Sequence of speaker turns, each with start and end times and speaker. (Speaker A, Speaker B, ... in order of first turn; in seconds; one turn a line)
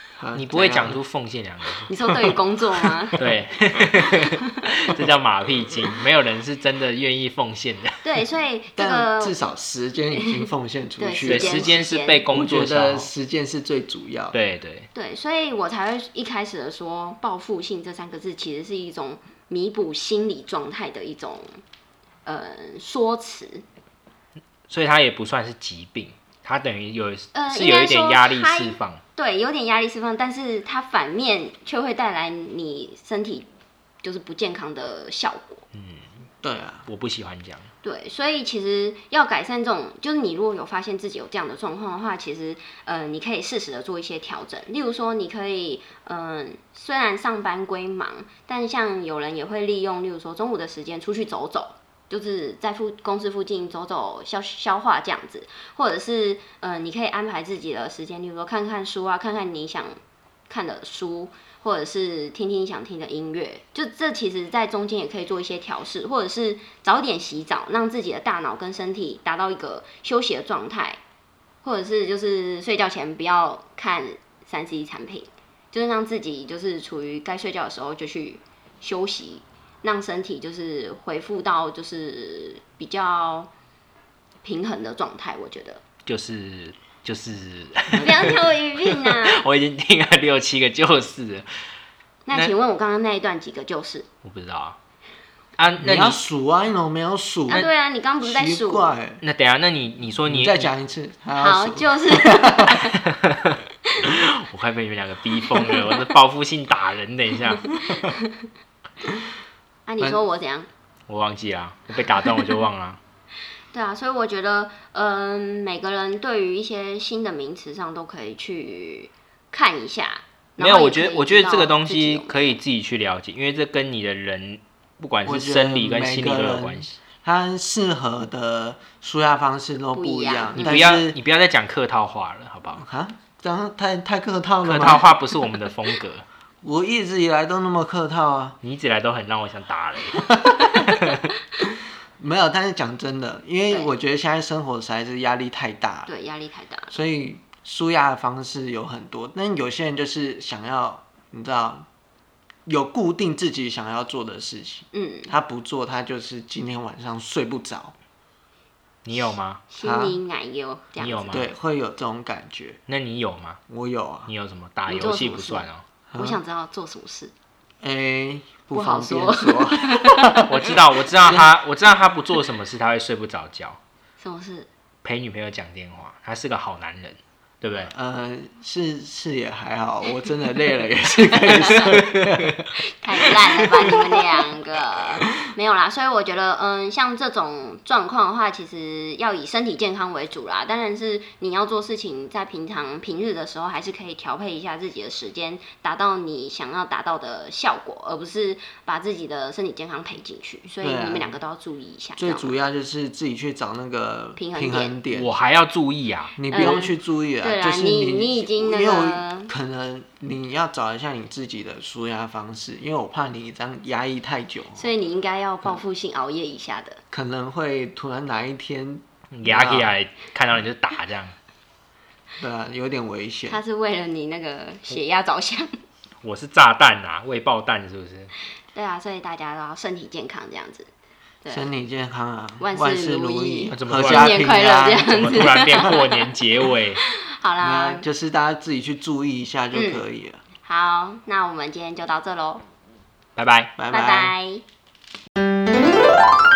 Speaker A: 0.2-1.0
Speaker B: 0.3-2.4
Speaker C: 1.9-3.2
Speaker B: 3.1-8.0
Speaker C: 8.0-9.4
Speaker A: 8.8-14.4
Speaker C: 10.2-10.5
Speaker C: 11.0-12.3
Speaker B: 11.2-13.1
Speaker B: 14.3-14.9
Speaker C: 14.9-21.6
Speaker C: 22.2-23.6
Speaker B: 24.7-29.0
Speaker C: 27.3-33.5
Speaker C: 34.0-35.6
Speaker B: 35.7-36.2
Speaker A: 36.4-36.9
Speaker B: 36.9-37.7
Speaker C: 37.8-60.0
Speaker C: 60.5-71.0
Speaker C: 71.6-83.5
Speaker C: 84.4-85.8
Speaker B: 86.1-91.5
Speaker C: 87.9-89.4
Speaker C: 92.3-94.1
Speaker B: 94.2-94.8
Speaker B: 95.6-96.2
Speaker A: 95.8-97.7
Speaker C: 97.5-98.9
Speaker A: 98.2-99.2
Speaker B: 99.2-100.7
Speaker A: 100.3-102.8
Speaker C: 101.4-103.0
Speaker B: 103.5-108.2
Speaker C: 107.9-108.3
Speaker C: 109.9-110.7
Speaker B: 111.1-113.0
Speaker C: 113.7-122.6
Speaker B: 120.6-127.0
Speaker A: 125.2-131.2
Speaker C: 129.9-130.8
Speaker B: 130.6-132.8
Speaker A: 132.8-135.7
Speaker B: 134.6-136.2
Speaker A: 136.6-138.6
Speaker B: 138.6-141.3
Speaker A: 140.3-140.9
Speaker A: 142.2-146.1
Speaker C: 146.1-147.0
Speaker A: 146.9-151.9
Speaker A: 152.7-157.9
Speaker C: 154.9-155.3
Speaker B: 159.1-159.6
Speaker C: 159.7-161.4
Speaker A: 159.8-160.2
Speaker B: 161.0-161.5
Speaker A: 161.3-162.8
Speaker B: 162.9-163.6
Speaker A: 163.7-164.3
Speaker B: 164.3-165.8
Speaker C: 164.9-167.3
Speaker A: 166.1-166.4
Speaker A: 167.8-170.5
Speaker C: 168.7-170.4
Speaker B: 170.4-173.8
Speaker A: 171.2-171.6
Speaker C: 174.2-174.7
Speaker B: 175.0-177.9
Speaker A: 177.9-182.5
Speaker C: 181.4-182.0
Speaker B: 181.8-182.6
Speaker C: 182.9-202.6
Speaker A: 183.6-184.1
Speaker A: 200.8-201.4
Speaker A: 202.2-205.3
Speaker C: 204.4-205.0
Speaker B: 205.1-206.8
Speaker A: 206.4-214.9
Speaker C: 206.5-209.5
Speaker C: 214.8-217.0
Speaker A: 217.1-219.9
Speaker B: 219.3-221.3
Speaker A: 222.4-223.6
Speaker C: 223.5-225.7
Speaker B: 226.2-228.3
Speaker C: 228.7-230.9
Speaker C: 231.4-231.7
Speaker A: 231.5-236.1
Speaker C: 232.6-236.1
Speaker B: 233.7-237.0
Speaker C: 237.0-238.1
Speaker A: 237.6-240.4
Speaker C: 239.7-240.0
Speaker C: 240.6-242.6
Speaker B: 243.4-243.7
Speaker A: 243.8-244.3
Speaker C: 243.9-244.6